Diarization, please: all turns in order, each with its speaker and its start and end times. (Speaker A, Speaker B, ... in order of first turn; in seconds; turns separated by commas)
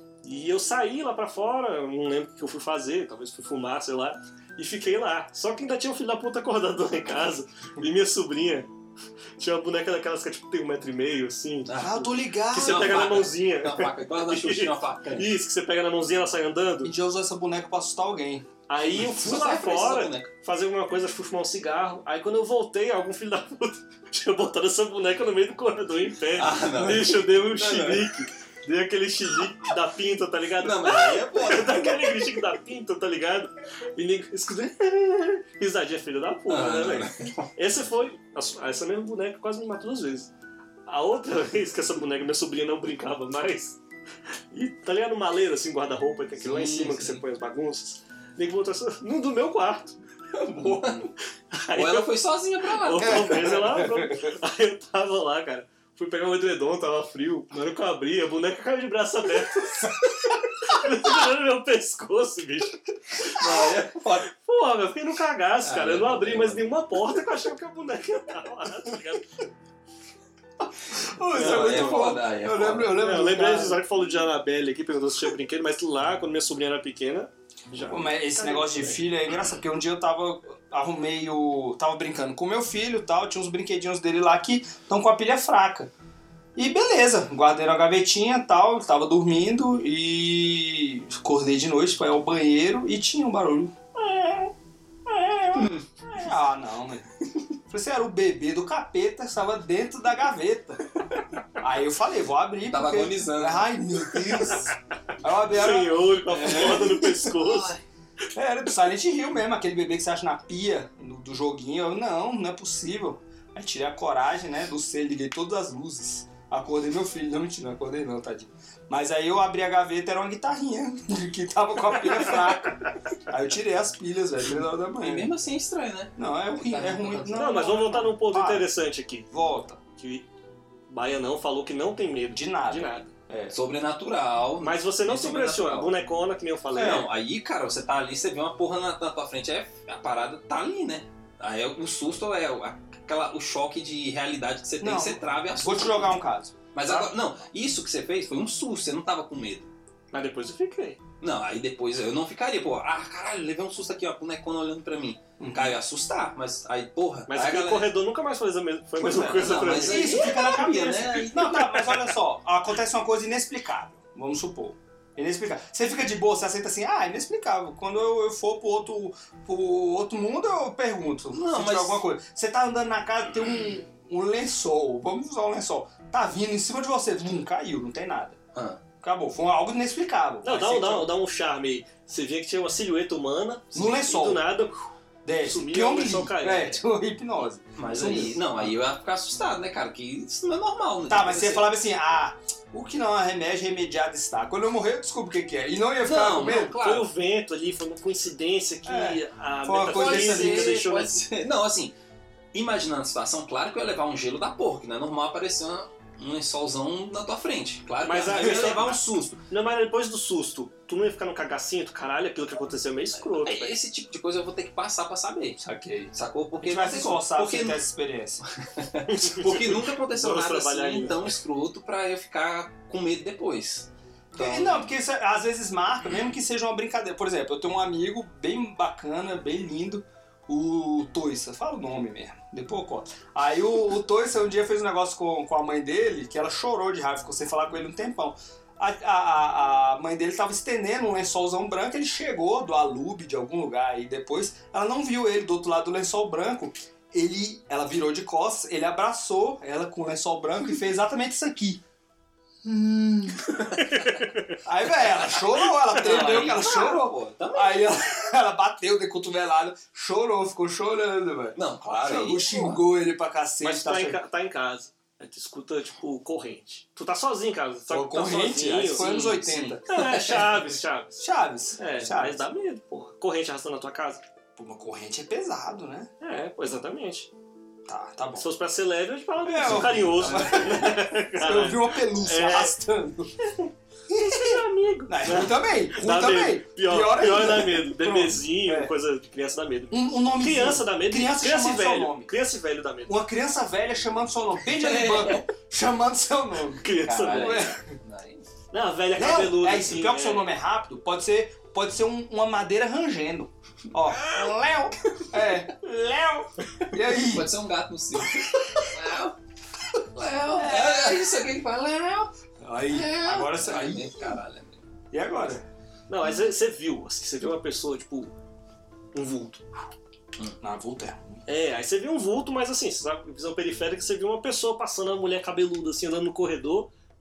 Speaker A: 0.2-8.7, Speaker A: 9.4-11.8, Speaker B: 11.7-15.3, Speaker C: 11.8-13.1, Speaker A: 12.5-16.9, Speaker C: 16.8-18.5, Speaker A: 18.7-40.3, Speaker B: 18.9-20.3, Speaker B: 26.3-28.2, Speaker B: 30.6-32.4, Speaker B: 36.5-37.5, Speaker A: 40.9-43.8, Speaker A: 44.5-50.0, Speaker B: 46.4-47.2, Speaker B: 50.4-51.1, Speaker A: 50.6-51.0, Speaker A: 51.5-52.1, Speaker B: 51.7-53.8, Speaker A: 52.7-69.2, Speaker C: 53.1-54.3, Speaker B: 63.2-64.3, Speaker B: 65.6-66.7, Speaker C: 71.0-73.8, Speaker A: 71.3-72.1, Speaker B: 71.3-73.0, Speaker A: 72.9-79.0, Speaker C: 77.9-85.9, Speaker C: 86.5-94.5, Speaker C: 95.1-97.1, Speaker B: 95.6-95.8, Speaker C: 97.7-100.9, Speaker C: 101.6-107.3, Speaker B: 102.7-104.6, Speaker A: 105.5-107.7, Speaker B: 106.3-107.8, Speaker C: 108.3-125.3, Speaker B: 125.0-127.5, Speaker C: 126.2-128.7, Speaker A: 127.3-129.3, Speaker C: 129.3-129.8, Speaker A: 129.9-130.3, Speaker A: 130.9-133.1, Speaker C: 132.3-133.5, Speaker B: 133.5-135.9, Speaker A: 134.6-137.1, Speaker B: 136.7-146.2, Speaker C: 144.8-147.1, Speaker B: 146.7-149.7, Speaker A: 150.1-151.0, Speaker B: 151.2-157.9, Speaker C: 155.4-155.8, Speaker A: 157.3-160.6, Speaker C: 159.0-178.4, Speaker B: 159.0-162.1, Speaker B: 171.3-172.0, Speaker B: 178.5-178.8, Speaker C: 179.0-181.1, Speaker A: 180.4-184.8, Speaker C: 183.7-184.4, Speaker C: 185.2-188.7, Speaker A: 185.4-186.8, Speaker B: 187.8-191.7, Speaker C: 191.1-196.8, Speaker B: 196.0-197.1, Speaker A: 196.7-201.2, Speaker C: 198.8-200.8, Speaker B: 199.9-201.9, Speaker B: 202.5-209.4, Speaker A: 208.0-213.8, Speaker C: 208.3-208.7, Speaker B: 213.2-215.6, Speaker C: 215.6-218.4, Speaker B: 216.1-217.8, Speaker B: 218.6-224.9, Speaker A: 219.1-221.3, Speaker C: 224.3-251.8, Speaker C: 252.6-253.7, Speaker A: 253.8-254.6, Speaker C: 254.6-264.2, Speaker B: 255.9-257.9, Speaker B: 261.5-262.8, Speaker A: 263.6-269.2, Speaker C: 267.9-270.2, Speaker B: 269.0-270.7, Speaker A: 269.9-271.1, Speaker C: 271.2-272.4, Speaker A: 271.8-274.2, Speaker C: 274.6-276.1, Speaker A: 276.2-277.3, Speaker C: 277.9-278.4, Speaker A: 278.4-282.7, Speaker C: 279.4-283.3, Speaker A: 283.4-283.7, Speaker C: 284.1-288.9, Speaker A: 284.2-293.1, Speaker C: 289.9-292.3, Speaker C: 293.1-298.0, Speaker B: 294.6-295.4, Speaker A: 296.8-297.7, Speaker B: 297.0-298.5, Speaker A: 298.7-300.5, Speaker C: 299.1-307.5, Speaker B: 307.1-309.4, Speaker C: 308.2-308.9, Speaker B: 310.1-312.3, Speaker C: 310.5-311.3, Speaker C: 312.6-314.4, Speaker B: 312.9-314.8, Speaker C: 315.1-315.6, Speaker A: 316.1-318.3, Speaker A: 319.1-319.6, Speaker C: 320.6-321.4, Speaker A: 321.4-326.9